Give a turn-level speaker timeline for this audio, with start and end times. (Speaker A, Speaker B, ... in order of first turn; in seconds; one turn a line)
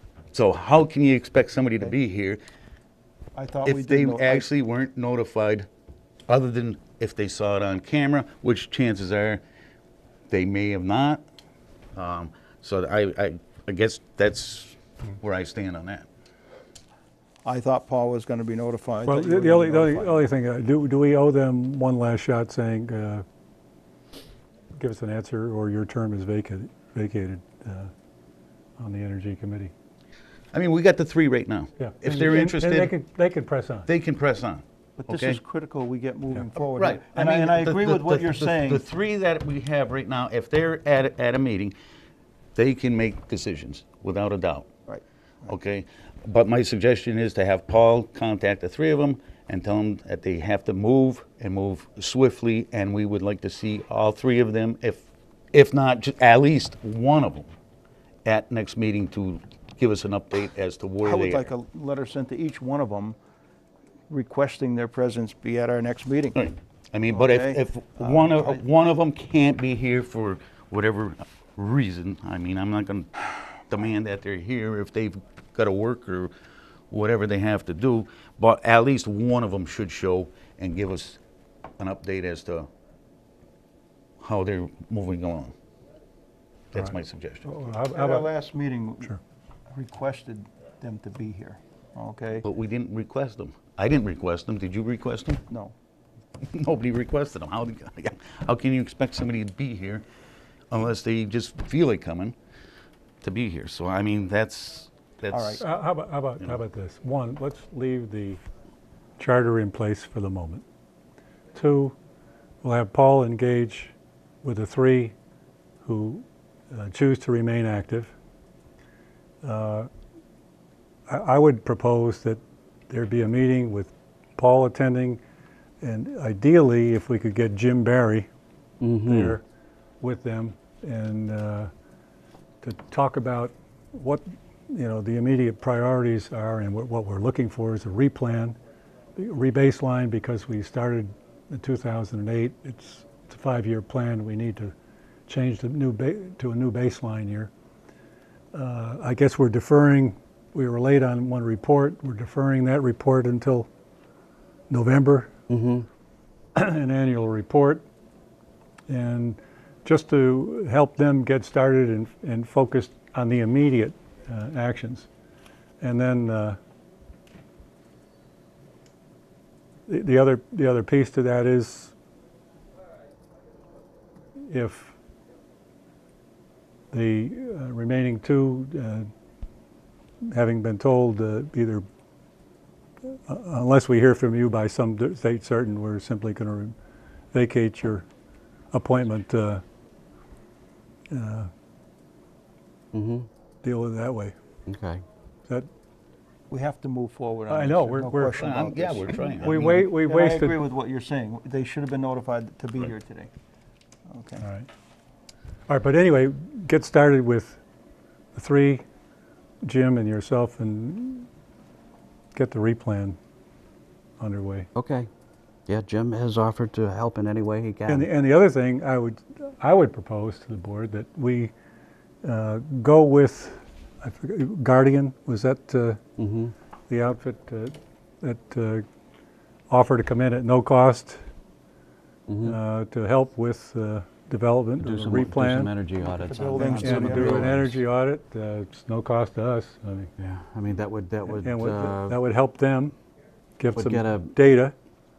Speaker A: 0.3-2.4
Speaker B: 3.4-4.5
Speaker A: 3.6-5.7
Speaker A: 6.3-9.4
Speaker A: 10.3-11.2
Speaker A: 11.9-16.1
Speaker B: 17.4-20.2
Speaker C: 19.1-23.2
Speaker C: 24.8-27.9
Speaker C: 28.8-29.7
Speaker A: 30.5-32.9
Speaker C: 31.8-33.9
Speaker A: 33.9-35.4
Speaker B: 35.0-38.8
Speaker A: 36.6-41.7
Speaker A: 42.5-44.7
Speaker A: 45.5-57.5
Speaker A: 58.2-61.5
Speaker B: 61.0-63.1
Speaker B: 64.1-66.3
Speaker A: 66.3-76.3
Speaker B: 67.1-68.6
Speaker A: 76.9-81.2
Speaker A: 81.8-82.7
Speaker A: 84.2-85.5
Speaker A: 86.7-87.4
Speaker C: 87.4-88.3
Speaker B: 87.9-89.2
Speaker B: 89.7-92.4
Speaker A: 92.4-95.4
Speaker B: 95.5-95.7
Speaker A: 96.5-100.0
Speaker A: 100.7-102.3
Speaker A: 103.2-105.6
Speaker B: 105.3-105.6
Speaker C: 105.6-108.4
Speaker C: 109.2-110.6
Speaker C: 111.5-112.0
Speaker C: 112.6-115.1
Speaker C: 115.8-118.1
Speaker C: 119.4-119.9
Speaker C: 121.1-125.2
Speaker C: 125.8-128.3
Speaker D: 128.8-129.3
Speaker C: 129.0-129.4
Speaker C: 130.0-131.7
Speaker C: 132.6-138.6
Speaker C: 139.2-144.7
Speaker C: 145.3-147.5
Speaker C: 148.5-153.7
Speaker C: 154.7-155.3
Speaker D: 155.5-155.9
Speaker C: 156.6-157.8
Speaker C: 158.9-165.1
Speaker C: 165.8-166.6
Speaker C: 169.9-171.9
Speaker C: 174.5-174.9
Speaker C: 176.9-179.1
Speaker C: 180.3-181.8
Speaker C: 183.1-186.7
Speaker C: 187.3-188.1
Speaker C: 188.7-189.6
Speaker C: 191.1-191.5
Speaker D: 192.9-193.3
Speaker C: 193.6-194.3
Speaker D: 194.7-195.0
Speaker B: 196.5-203.3
Speaker C: 197.5-198.5
Speaker A: 198.3-199.9
Speaker C: 199.3-200.6
Speaker B: 204.1-204.4
Speaker C: 204.4-204.7
Speaker C: 205.7-207.6
Speaker C: 208.3-208.8
Speaker C: 209.6-211.3
Speaker C: 212.3-213.2
Speaker C: 214.2-214.7
Speaker D: 214.8-215.1
Speaker D: 215.7-218.1
Speaker C: 217.9-221.5
Speaker C: 222.2-226.0
Speaker D: 226.2-226.5
Speaker C: 226.9-228.8
Speaker C: 229.7-231.2
Speaker D: 232.3-232.5
Speaker C: 232.4-235.7
Speaker D: 234.8-237.8
Speaker B: 236.0-237.6
Speaker C: 236.6-240.1
Speaker D: 240.2-242.2
Speaker C: 241.4-242.9
Speaker C: 243.6-244.7
Speaker D: 243.7-244.3